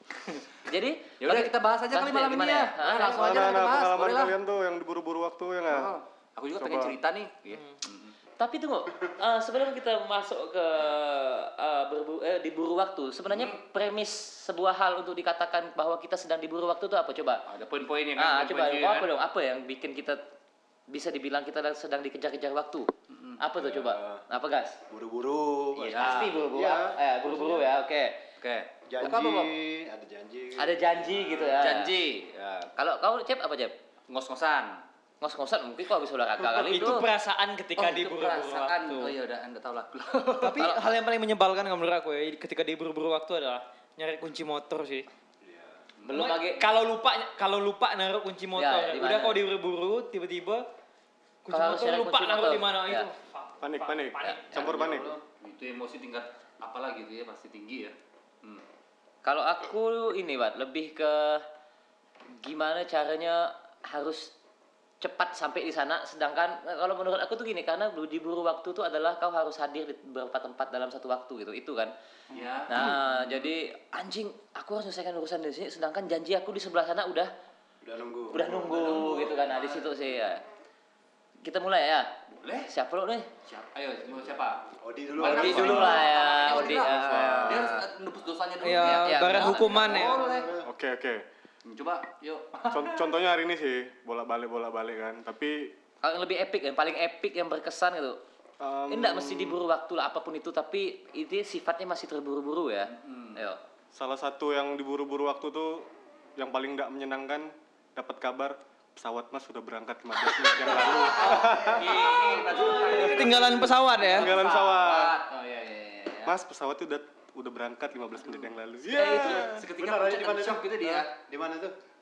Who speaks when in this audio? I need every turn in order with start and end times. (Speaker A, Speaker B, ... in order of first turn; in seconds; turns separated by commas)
Speaker A: 0.7-3.6, Speaker B: 1.2-4.3, Speaker C: 3.1-6.0, Speaker B: 5.7-8.2, Speaker C: 6.6-7.0, Speaker A: 8.4-17.4, Speaker B: 13.3-13.6, Speaker B: 17.4-19.1, Speaker A: 18.2-20.2, Speaker A: 20.9-24.8, Speaker B: 23.1-23.4, Speaker D: 23.6-24.2, Speaker D: 24.9-27.7, Speaker A: 25.7-28.2, Speaker B: 25.9-26.4, Speaker B: 28.4-29.5, Speaker D: 28.9-31.8, Speaker A: 30.6-31.9, Speaker B: 31.6-32.7, Speaker A: 32.8-33.8, Speaker B: 34.1-34.8, Speaker A: 35.2-37.1, Speaker E: 36.5-39.1, Speaker B: 37.8-40.7, Speaker E: 40.4-45.0, Speaker A: 40.6-40.8, Speaker D: 45.4-45.8, Speaker B: 46.0-46.4, Speaker A: 46.1-46.6, Speaker E: 46.1-50.6, Speaker A: 48.5-49.4, Speaker E: 51.4-54.7, Speaker A: 51.5-53.1, Speaker C: 53.6-55.1, Speaker D: 54.6-55.2, Speaker B: 55.4-58.6, Speaker A: 59.2-61.4, Speaker A: 62.4-64.3, Speaker A: 65.0-71.9, Speaker B: 72.3-73.5, Speaker A: 72.7-77.3, Speaker D: 77.8-79.3, Speaker A: 78.3-80.4, Speaker B: 78.7-79.9, Speaker A: 81.4-82.2, Speaker B: 82.4-82.7, Speaker A: 82.7-83.3, Speaker B: 83.5-90.5, Speaker D: 84.8-86.1, Speaker A: 85.2-87.8, Speaker C: 86.8-87.8, Speaker E: 88.6-90.2, Speaker A: 89.0-89.6, Speaker D: 89.6-90.7, Speaker C: 90.6-91.2, Speaker B: 91.7-93.2, Speaker C: 92.7-95.7, Speaker A: 96.0-98.2, Speaker C: 98.6-99.6, Speaker A: 98.9-103.6, Speaker B: 102.9-103.4, Speaker C: 103.9-112.2, Speaker B: 110.6-116.3, Speaker E: 112.2-114.3, Speaker C: 112.8-113.3, Speaker C: 114.0-115.2, Speaker C: 116.2-119.7, Speaker B: 118.2-121.1, Speaker D: 119.1-121.8